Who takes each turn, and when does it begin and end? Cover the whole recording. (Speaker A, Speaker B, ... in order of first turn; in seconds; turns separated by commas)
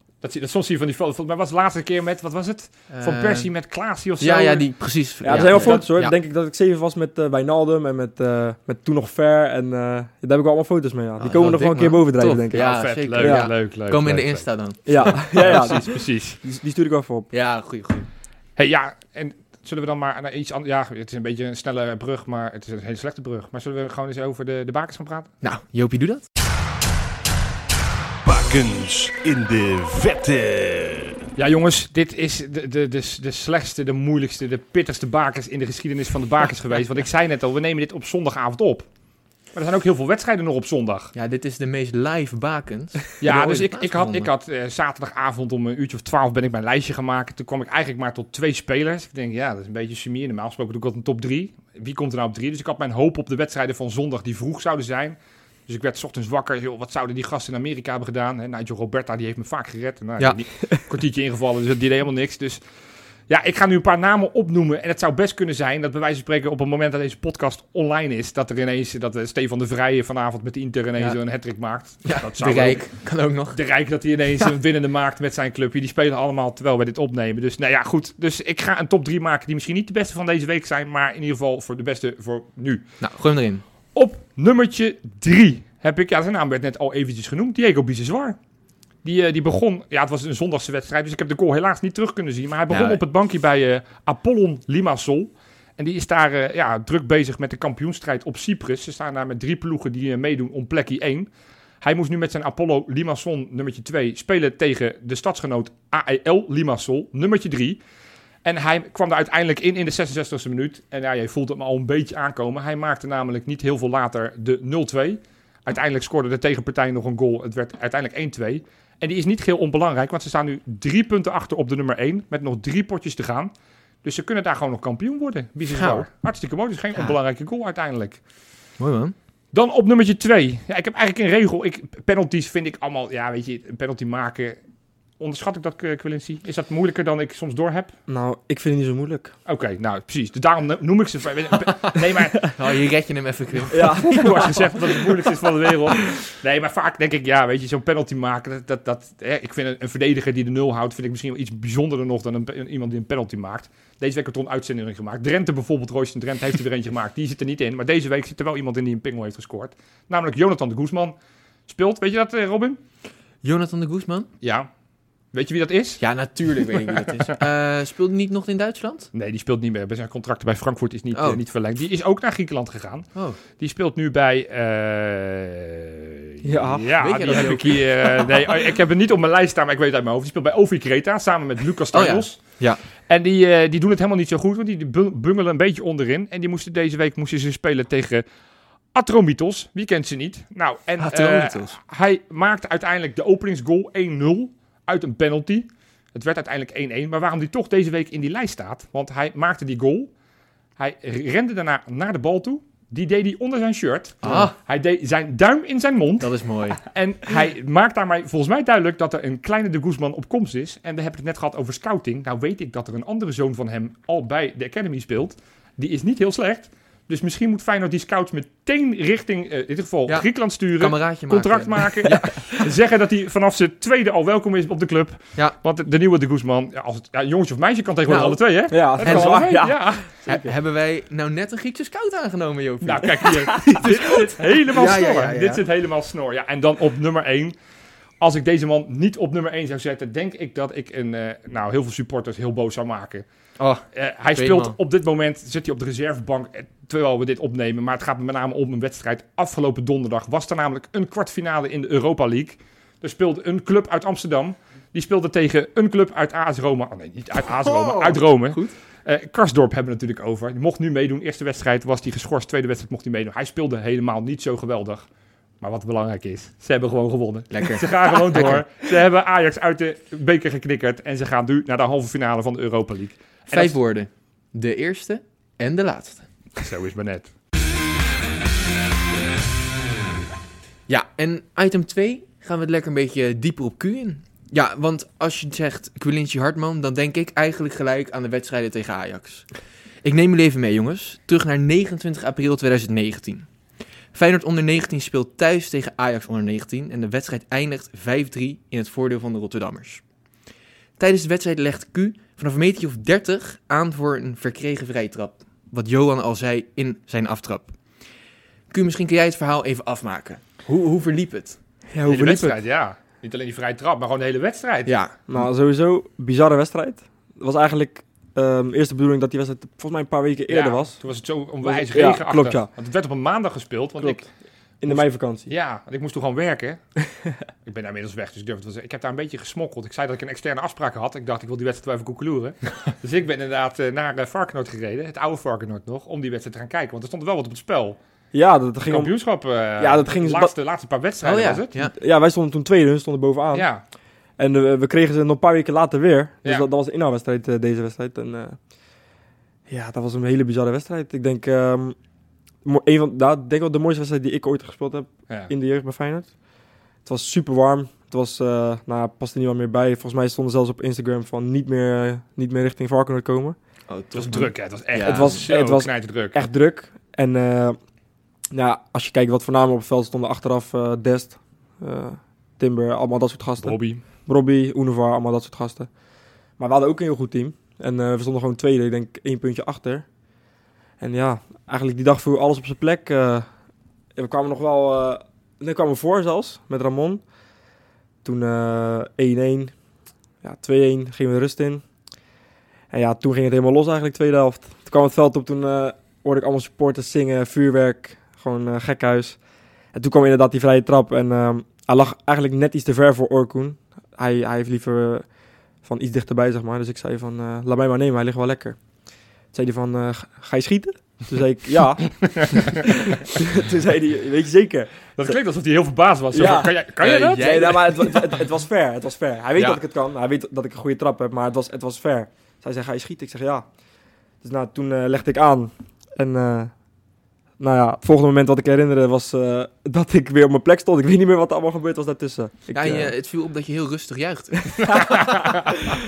Speaker A: 0.2-4.7, Speaker B: 2.9-3.5, Speaker B: 4.2-6.1, Speaker C: 5.2-13.5, Speaker A: 5.3-5.8, Speaker B: 11.2-15.7, Speaker A: 12.5-16.4, Speaker C: 14.8-15.9, Speaker C: 16.4-17.3, Speaker B: 17.3-18.1, Speaker A: 18.6-25.3, Speaker B: 25.4-26.3, Speaker D: 28.2-31.2, Speaker A: 31.4-38.9, Speaker A: 39.5-41.1, Speaker B: 41.1-44.3, Speaker A: 43.2-55.1, Speaker A: 55.7-62.6, Speaker A: 63.3-72.9, Speaker B: 72.1-73.6, Speaker A: 73.5-82.8, Speaker B: 83.0-83.6, Speaker A: 83.9-88.4, Speaker A: 89.0-101.3, Speaker B: 92.7-93.0, Speaker A: 101.8-107.8, Speaker A: 108.4-123.5, Speaker A: 124.0-128.2, Speaker B: 125.7-126.0, Speaker B: 128.8-129.1, Speaker A: 129.5-134.6, Speaker A: 135.2-137.9, Speaker C: 138.1-139.3, Speaker A: 139.4-142.6, Speaker B: 142.5-144.6, Speaker C: 143.7-144.6, Speaker A: 143.7-161.1, Speaker A: 161.7-162.8, Speaker B: 163.4-164.3, Speaker A: 164.4-164.7, Speaker A: 165.3-166.0, Speaker B: 166.0-169.1, Speaker A: 166.8-167.1, Speaker A: 169.1-182.4, Speaker B: 171.1-171.4, Speaker B: 173.1-173.4, Speaker C: 176.4-176.9, Speaker B: 177.0-178.5, Speaker B: 181.9-182.8, Speaker A: 183.1-188.2, Speaker A: 188.9-200.1, Speaker B: 191.0-191.8, Speaker A: 200.8-230.1, Speaker B: 204.2-204.5, Speaker B: 206.2-206.8, Speaker B: 220.8-221.8, Speaker B: 228.1-228.4, Speaker C: 228.7-230.5, Speaker B: 229.0-229.5, Speaker B: 230.2-235.6, Speaker A: 232.8-237.5, Speaker A: 238.2-243.2, Speaker B: 243.6-243.8, Speaker A: 243.9-265.0, Speaker B: 244.3-244.8, Speaker B: 257.6-258.7, Speaker A: 265.6-273.8, Speaker B: 267.5-268.6, Speaker B: 273.5-276.3, Speaker A: 276.6-277.3, Speaker B: 280.9-289.5, Speaker B: 290.0-293.5, Speaker B: 294.1-300.0, Speaker B: 301.0-307.7, Speaker B: 308.7-311.6, Speaker C: 311.9-312.6, Speaker A: 312.1-314.9, Speaker B: 314.9-315.1, Speaker C: 315.3-321.0, Speaker A: 320.5-324.2, Speaker C: 321.6-322.7, Speaker C: 324.8-325.5, Speaker A: 324.9-326.8, Speaker A: 327.6-338.0, Speaker C: 338.3-339.1, Speaker A: 338.9-341.7, Speaker C: 339.8-340.5, Speaker B: 341.2-341.9, Speaker C: 341.8-343.7, Speaker A: 343.5-343.8, Speaker C: 344.4-348.6, Speaker C: 349.7-351.9, Speaker C: 352.6-356.3, Speaker C: 357.0-363.6, Speaker B: 363.9-365.4, Speaker A: 364.1-366.4, Speaker C: 365.0-367.8, Speaker C: 368.5-375.9, Speaker A: 373.6-374.0, Speaker C: 376.6-380.1, Speaker C: 381.0-383.5, Speaker C: 384.1-387.2, Speaker C: 388.2-389.7, Speaker C: 390.4-391.8, Speaker C: 392.9-399.4, Speaker C: 399.9-405.2, Speaker C: 405.8-408.8, Speaker C: 409.5-415.4, Speaker A: 412.2-412.8, Speaker A: 415.1-417.7, Speaker C: 416.3-416.8, Speaker B: 417.0-418.4, Speaker C: 417.4-423.6, Speaker C: 424.4-426.7, Speaker C: 427.6-433.1, Speaker B: 432.7-435.0, Speaker A: 434.8-435.9